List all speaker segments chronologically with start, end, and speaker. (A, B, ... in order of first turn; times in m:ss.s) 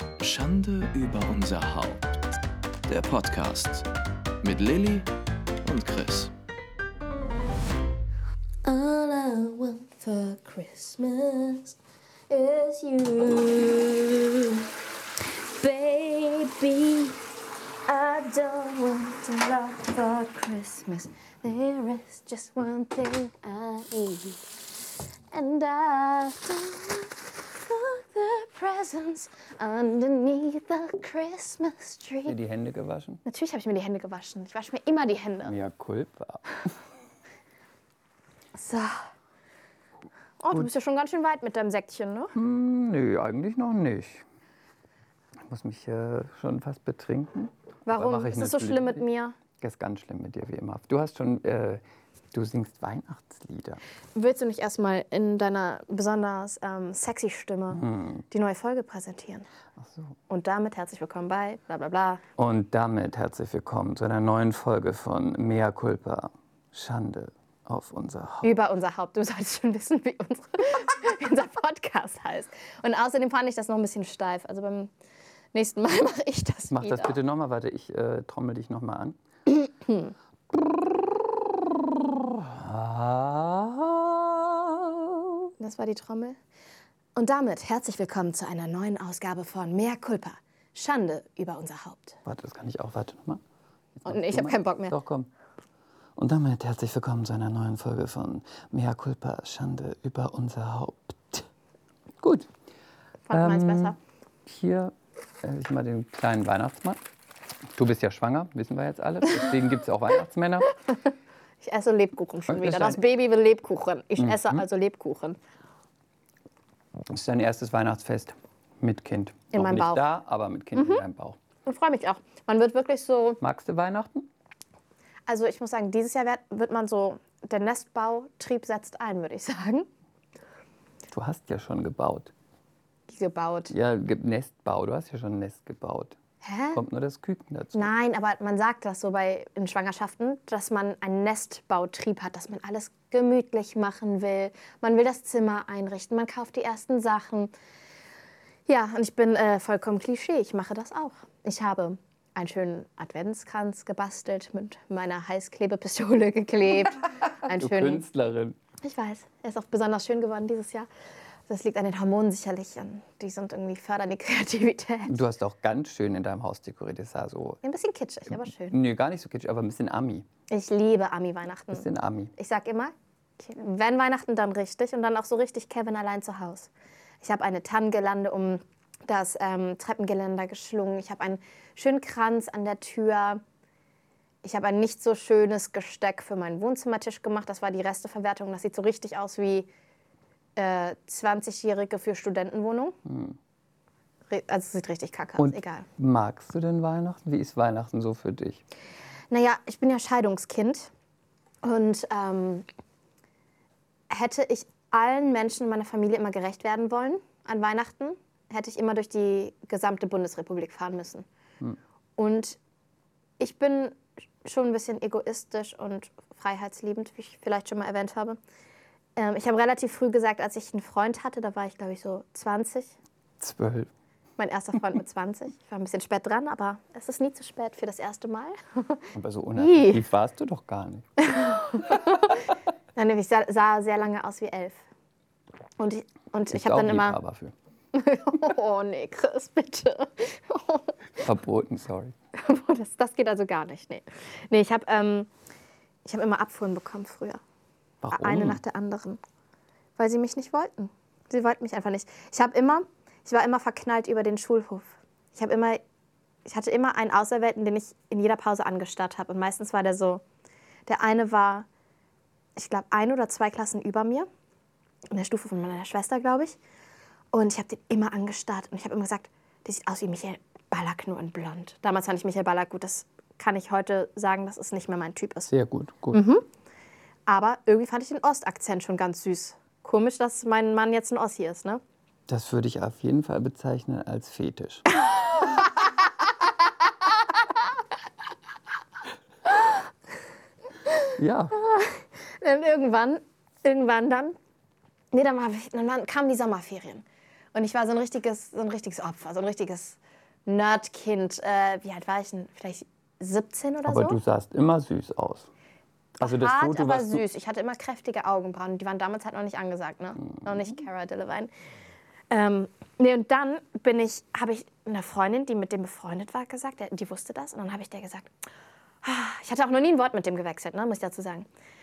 0:00.2-0:02.1 A
0:02.9-0:03.9 A
0:04.4-0:05.1 A
0:05.6-0:06.3 A
0:08.6-0:11.8 B
0:12.3-0:14.7 B
0:15.4-0:17.2 B
0:17.9-0:24.4 B
0:25.3-0:32.4 B
0:32.3-0:33.2 C
0:33.2-0:35.5 B
0:35.4-0:36.4 C
0:38.6-0:39.0 B
0:40.4-0:42.4 B
0:42.4-0:44.2 C
0:45.5-0:49.0 C
0:47.9-0:49.4 B
0:49.6-0:53.8 C
0:54.2-0:59.5 B
0:57.7-0:58.2 C
0:59.8-1:00.2 C
1:00.3-1:02.2 B
1:02.4-1:08.6 C
1:08.4-1:14.9 B
1:15.5-1:17.2 B
1:16.7-1:19.2 C
1:20.5-1:25.5 C
1:25.6-1:26.4 B
1:27.2-1:32.2 B
1:32.2-1:33.4 C
1:34.0-1:35.3 C
1:34.1-1:35.0 B
1:36.2-1:41.5 C
1:42.2-1:42.5 C
1:43.3-1:44.0 B
1:43.3-1:44.0 C
1:44.5-1:47.0 C
1:47.7-1:50.7 C
1:51.6-1:55.4 B
1:52.5-1:53.0 C
1:54.2-1:54.6 C
1:57.1-2:01.4 C
1:59.5-2:00.0 B
2:00.8-2:01.0 B
2:01.6-2:03.4 B
2:03.4-2:04.3 C
2:05.3-2:09.9 B
2:11.1-2:12.3 C
2:13.1-2:13.7 B
2:13.7-2:16.2 C
2:16.4-2:16.8 B
2:16.7-2:17.9 C
2:17.7-2:27.5 B
2:28.7-2:38.0 B
2:37.4-2:38.6 C
2:38.8-2:40.9 B
2:41.5-2:45.2 B
2:45.1-2:47.6 C
2:47.6-2:48.8 B
2:48.3-2:50.3 C
2:50.5-2:56.7 B
2:51.7-2:52.3 C
2:57.2-3:03.4 B
3:04.4-3:09.7 B
3:10.6-3:13.0 B
3:13.1-3:13.4 C
3:14.3-3:15.9 B
3:15.4-3:18.6 C
3:19.3-3:20.9 B
3:21.6-3:22.7 B
3:24.1-3:31.3 B
3:32.2-3:32.6 B
3:33.4-3:38.4 B
3:39.2-3:42.9 B
3:43.4-3:43.9 C
3:44.4-3:50.0 B
3:49.1-3:51.1 C
3:51.2-3:54.8 B
3:55.8-3:57.2 B
3:56.5-3:57.5 C
3:57.9-4:01.0 B
4:01.2-4:02.1 C
4:02.4-4:05.3 B
4:06.1-4:07.4 B
4:08.0-4:08.6 C
4:08.1-4:09.2 B
4:10.0-4:15.8 B
4:16.5-4:20.2 B
4:20.9-4:21.7 B
4:22.6-4:24.3 B
4:25.1-4:26.6 B
4:27.3-4:35.5 B
4:35.5-4:36.2 C
4:36.1-4:36.4 B
4:37.3-4:41.8 B
4:42.3-4:44.9 C
4:50.9-4:54.4 B
4:51.2-4:51.5 C
4:55.1-5:04.2 B
5:03.9-5:05.5 C
5:06.2-5:11.5 B
5:06.2-5:07.2 C
5:12.3-5:18.3 B
5:19.0-5:21.5 B